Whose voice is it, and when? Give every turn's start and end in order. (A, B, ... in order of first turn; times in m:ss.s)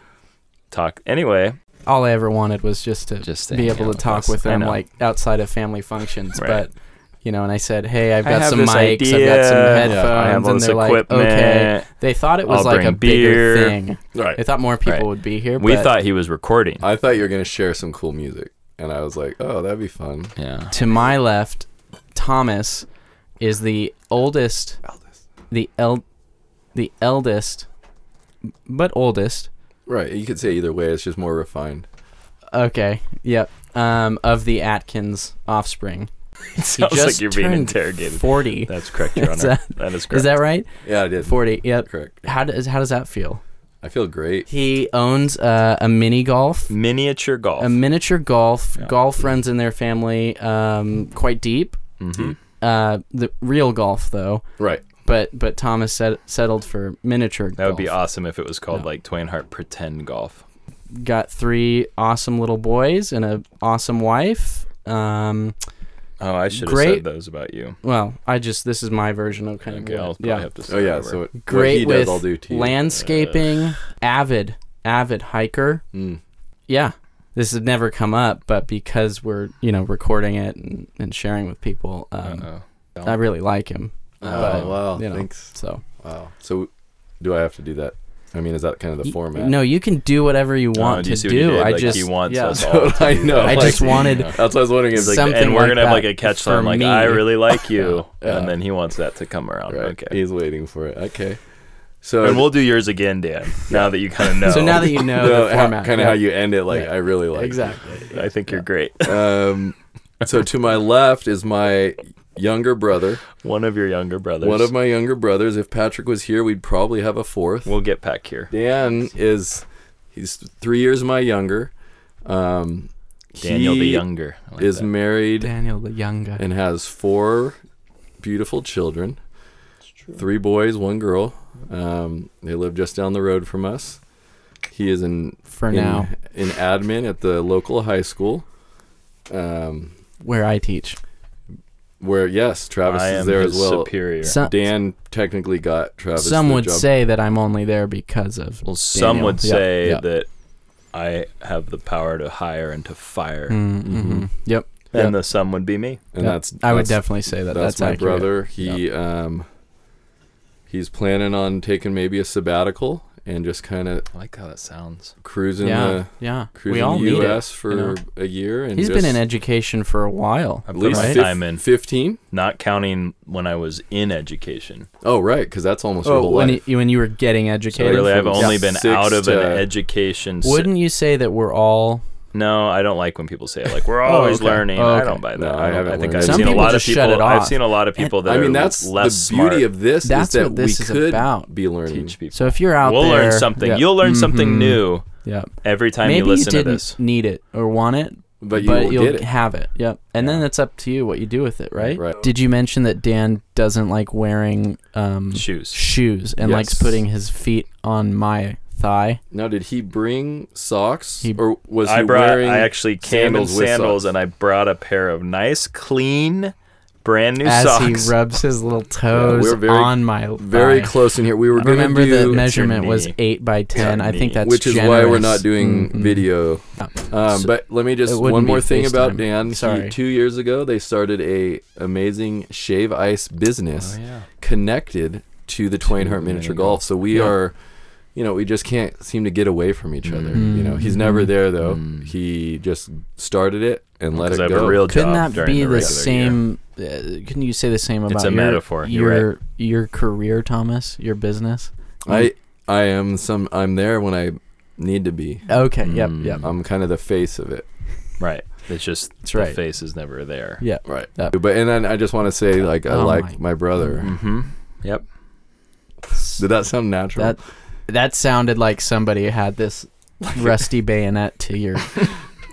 0:00.7-0:01.6 A
0:01.9-0:06.7 B
0:03.2-0:04.8 A
0:06.4-0:06.6 A
0:07.2-0:15.9 B
0:08.2-0:11.9 A
0:09.8-0:10.3 C
0:12.5-0:13.8 A
0:14.1-0:14.4 C
0:15.6-0:16.8 A
0:16.8-0:20.3 C
0:20.4-0:20.7 A
0:20.7-0:22.9 B
0:23.4-0:24.8 B
0:25.5-0:26.0 B
0:26.8-0:27.7 B
0:28.7-0:29.5 B
0:29.9-0:31.9 C
0:32.5-0:36.1 B
0:36.6-0:40.3 A
0:36.7-0:40.7 B
0:40.8-0:42.3 C
0:41.2-0:43.4 B
0:43.8-0:44.5 C
0:44.5-0:46.7 B
0:46.7-0:47.8 A
0:47.6-0:51.8 B
0:52.0-0:52.4 A
0:52.6-0:54.4 B
0:54.6-0:54.9 C
0:55.0-0:57.9 B
0:57.6-1:00.4 A
1:00.9-1:05.6 B
1:06.2-1:07.8 A
1:06.5-1:07.0 B
1:07.8-1:10.5 B
1:09.7-1:11.2 A
1:10.7-1:12.8 C
1:11.4-1:15.8 B
1:13.0-1:13.6 A
1:15.9-1:16.2 C
1:16.7-1:22.5 B
1:22.2-1:23.2 A
1:23.0-1:25.8 B
1:24.2-1:24.8 A
1:24.2-1:29.6 C
1:29.0-1:32.6 B
1:30.8-1:34.4 A
1:32.5-1:35.3 C
1:33.4-1:34.3 B
1:34.9-1:40.2 A
1:34.9-1:38.4 B
1:38.2-1:38.5 C
1:39.7-1:41.4 C
1:42.0-1:42.5 C
1:42.2-1:45.1 A
1:44.4-1:48.6 B
1:44.9-1:47.8 C
1:48.1-1:49.2 A
1:49.0-1:53.2 C
1:53.4-1:54.7 A
1:54.4-1:57.8 C
1:57.7-1:58.5 A
1:58.5-2:01.7 C
2:02.2-2:04.0 C
2:03.4-2:04.9 A
2:04.6-2:05.5 C
2:05.4-2:06.4 B
2:06.4-2:07.6 C
2:08.2-2:09.2 C
2:10.2-2:14.0 C
2:14.7-2:18.4 C
2:15.5-2:16.1 B
2:19.3-2:19.9 C
2:20.2-2:21.0 B
2:22.0-2:26.9 C
2:22.9-2:24.4 A
2:24.2-2:24.6 B
2:26.2-2:30.0 B
2:28.7-2:30.3 A
2:30.9-2:33.6 A
2:33.5-2:34.7 B
2:33.8-2:34.3 C
2:34.9-2:36.0 A
2:36.1-2:39.4 C
2:36.2-2:38.3 B
2:40.7-2:44.1 C
2:44.1-2:45.1 A
2:45.2-2:49.2 C
2:45.6-2:48.0 B
2:48.8-2:51.2 B
2:50.7-2:51.6 A
2:50.7-2:52.2 C
2:52.3-2:54.9 A
2:55.0-2:56.6 C
2:56.0-2:58.6 B
2:57.8-2:59.7 C
2:57.8-3:00.7 A
3:00.4-3:02.0 B
3:02.3-3:09.7 A
3:04.0-3:05.2 B
3:05.3-3:06.9 C
3:06.2-3:08.1 B
3:08.2-3:12.2 C
3:10.0-3:11.5 B
3:11.9-3:15.0 A
3:12.3-3:15.5 B
3:15.6-3:17.0 A
3:16.0-3:29.2 B
3:18.4-3:19.3 C
3:22.0-3:22.2 C
3:25.3-3:25.8 A
3:26.4-3:27.0 C
3:29.3-3:34.1 C
3:31.8-3:36.5 A
3:37.0-3:38.2 A
3:37.4-3:41.0 B
3:39.1-3:42.5 C
3:41.5-3:46.3 B
3:42.3-3:43.2 A
3:43.8-3:44.4 A
3:44.4-3:57.6 C
3:46.8-3:47.5 B
3:48.0-3:50.0 B
3:53.8-3:54.3 A
3:55.9-3:56.8 A
3:58.2-4:04.8 C
4:00.0-4:00.5 A
4:00.3-4:01.3 B
4:01.6-4:02.1 A
4:04.1-4:06.4 A
4:04.9-4:12.3 B
4:08.1-4:09.3 A
4:12.0-4:15.4 C
4:15.5-4:16.4 B
4:15.8-4:16.5 A
4:16.4-4:17.7 C
4:18.2-4:20.6 A
4:19.2-4:19.6 B
4:20.6-4:21.4 B
4:20.9-4:24.2 C
4:22.9-4:23.4 B
4:24.0-4:25.0 A
4:26.1-4:26.4 B
4:26.4-4:27.4 C
4:27.2-4:32.0 B
4:30.3-4:30.6 A